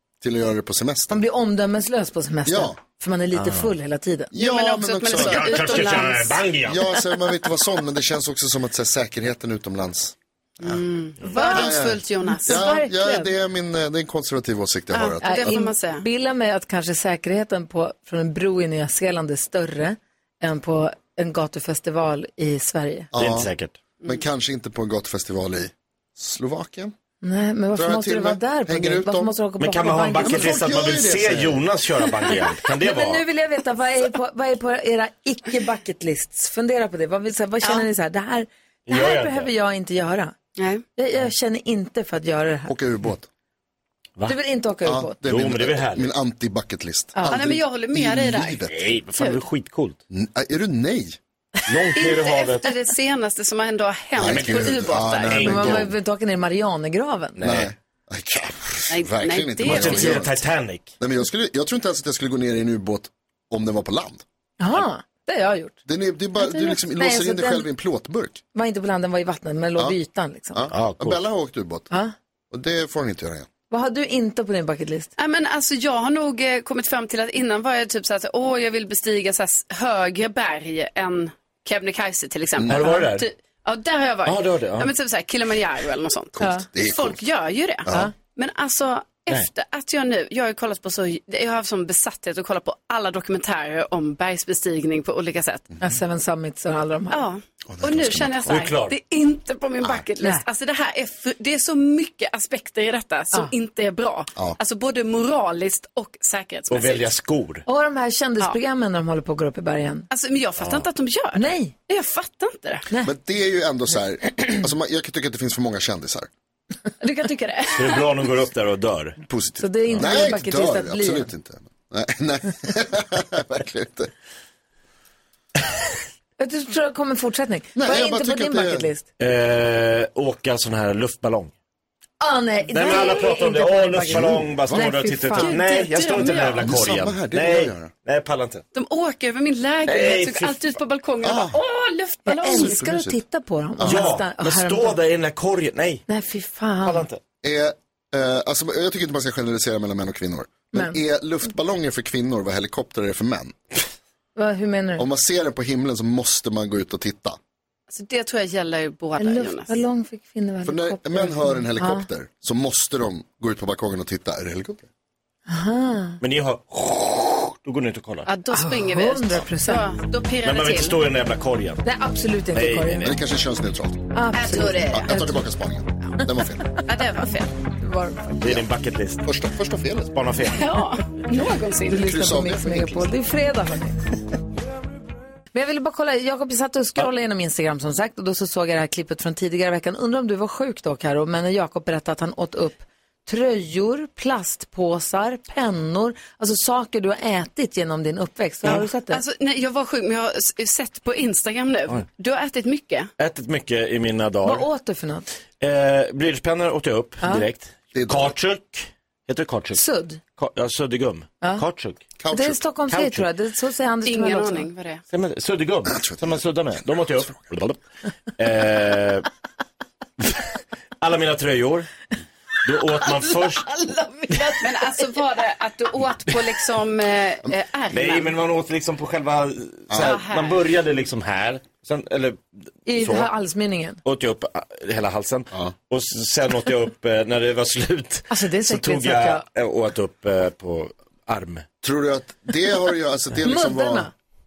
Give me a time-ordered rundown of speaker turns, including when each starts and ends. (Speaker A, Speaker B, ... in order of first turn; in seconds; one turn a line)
Speaker A: 0.2-1.2
Speaker B: 1.1-4.3
Speaker A: 2.5-2.8
Speaker C: 3.4-3.7
Speaker A: 4.3-10.8
Speaker D: 4.3-6.4
Speaker C: 5.1-6.8
Speaker D: 10.6-12.8
Speaker B: 11.3-11.7
Speaker A: 11.4-15.6
Speaker B: 12.2-13.3
Speaker D: 14.9-16.0
Speaker B: 15.2-23.1
Speaker A: 23.1-23.5
Speaker C: 23.1-23.8
Speaker A: 24.0-26.9
Speaker B: 27.2-30.6
Speaker A: 27.8-29.3
Speaker C: 29.6-33.2
Speaker A: 30.2-31.6
Speaker B: 32.6-40.3
Speaker C: 38.9-39.5
Speaker D: 40.6-40.8
Speaker B: 41.0-42.7
Speaker A: 42.7-43.3
Speaker B: 44.3-45.2
Speaker A: 44.9-48.8
Speaker C: 45.2-46.1
Speaker D: 47.3-49.4
Speaker C: 48.7-50.0
Speaker A: 50.1-51.2
Speaker C: 51.7-52.7
Speaker D: 51.9-55.4
Speaker A: 54.2-55.9
Speaker C: 54.2-55.9
Speaker B: 55.4-57.4
Speaker C: 57.4-57.7
Speaker A: 57.4-60.4
Speaker D: 58.9-60.2
Speaker C: 59.6-60.9
Speaker A: 61.0-64.2
Speaker B: 64.6-65.8
Speaker A: 65.9-68.4
Speaker B: 66.5-67.7
Speaker B: 68.5-70.7
Speaker A: 70.5-71.9
Speaker C: 70.7-71.2
Speaker A: 72.5-73.5
Speaker B: 73.7-75.1
Speaker D: 75.2-95.7
Speaker A: 82.6-82.8
Speaker C: 82.7-83.3
Speaker C: 84.3-84.9
Speaker A: 86.4-87.2
Speaker A: 87.8-88.1
Speaker B: 95.8-97.2
Speaker D: 97.1-107.1
Speaker A: 97.7-98.7
Speaker C: 98.5-98.9
Speaker C: 106.7-107.7
Speaker B: 107.7-110.1
Speaker D: 110.1-112.9
Speaker C: 110.6-110.8
Speaker B: 111.3-111.7
Speaker A: 113.0-116.3
Speaker D: 117.0-118.1
Speaker C: 117.8-119.2
Speaker A: 119.2-124.1
Speaker B: 119.6-121.3
Speaker B: 126.4-129.1
Speaker A: 127.8-128.9
Speaker C: 129.2-131.5
Speaker B: 132.2-135.6
Speaker C: 132.7-138.6
Speaker A: 134.1-134.9
Speaker D: 135.3-136.7
Speaker A: 136.6-137.9
Speaker D: 138.7-142.8
Speaker C: 139.9-140.6
Speaker A: 141.2-141.6
Speaker B: 142.3-145.0
Speaker A: 142.5-143.2
Speaker A: 143.8-144.1
Speaker C: 143.8-146.0
Speaker B: 146.1-147.1
Speaker C: 146.8-147.2
Speaker A: 147.4-153.6
Speaker B: 150.7-151.0
Speaker B: 154.4-155.1
Speaker A: 155.0-157.4
Speaker D: 157.9-159.8
Speaker B: 159.2-162.1
Speaker A: 160.7-164.9
Speaker B: 165.5-166.2
Speaker C: 166.2-168.3
Speaker D: 168.3-171.0
Speaker B: 168.5-169.8
Speaker C: 170.4-171.8
Speaker B: 171.8-173.1
Speaker C: 172.5-173.2
Speaker A: 173.0-176.8
Speaker B: 174.1-175.4
Speaker D: 174.3-175.3
Speaker D: 176.8-177.5
Speaker B: 177.8-178.4
Speaker A: 178.4-178.7
Speaker C: 178.4-179.3
Speaker A: 179.2-180.2
Speaker C: 180.1-180.7
Speaker D: 180.5-182.2
Speaker B: 181.9-184.0
Speaker A: 181.9-183.1
Speaker B: 185.5-199.2
Speaker D: 198.7-203.1
Speaker C: 203.2-204.7
Speaker B: 204.4-205.3
Speaker C: 205.6-209.8
Speaker A: 207.9-208.3
Speaker B: 209.8-210.2
Speaker C: 210.4-212.0
Speaker A: 212.2-212.6
Speaker B: 212.3-214.7
Speaker C: 212.9-213.2
Speaker D: 214.1-215.0
Speaker C: 215.1-217.8
Speaker A: 215.9-217.4
Speaker C: 218.4-219.3
Speaker C: 221.0-221.9
Speaker C: 222.6-223.7
Speaker B: 223.7-224.6
Speaker D: 224.6-228.3
Speaker C: 227.9-233.3
Speaker A: 229.9-230.2
Speaker D: 230.0-230.6
Speaker B: 232.9-234.0
Speaker C: 234.0-241.7
Speaker B: 238.3-239.4
Speaker A: 241.8-244.1
Speaker B: 243.4-244.1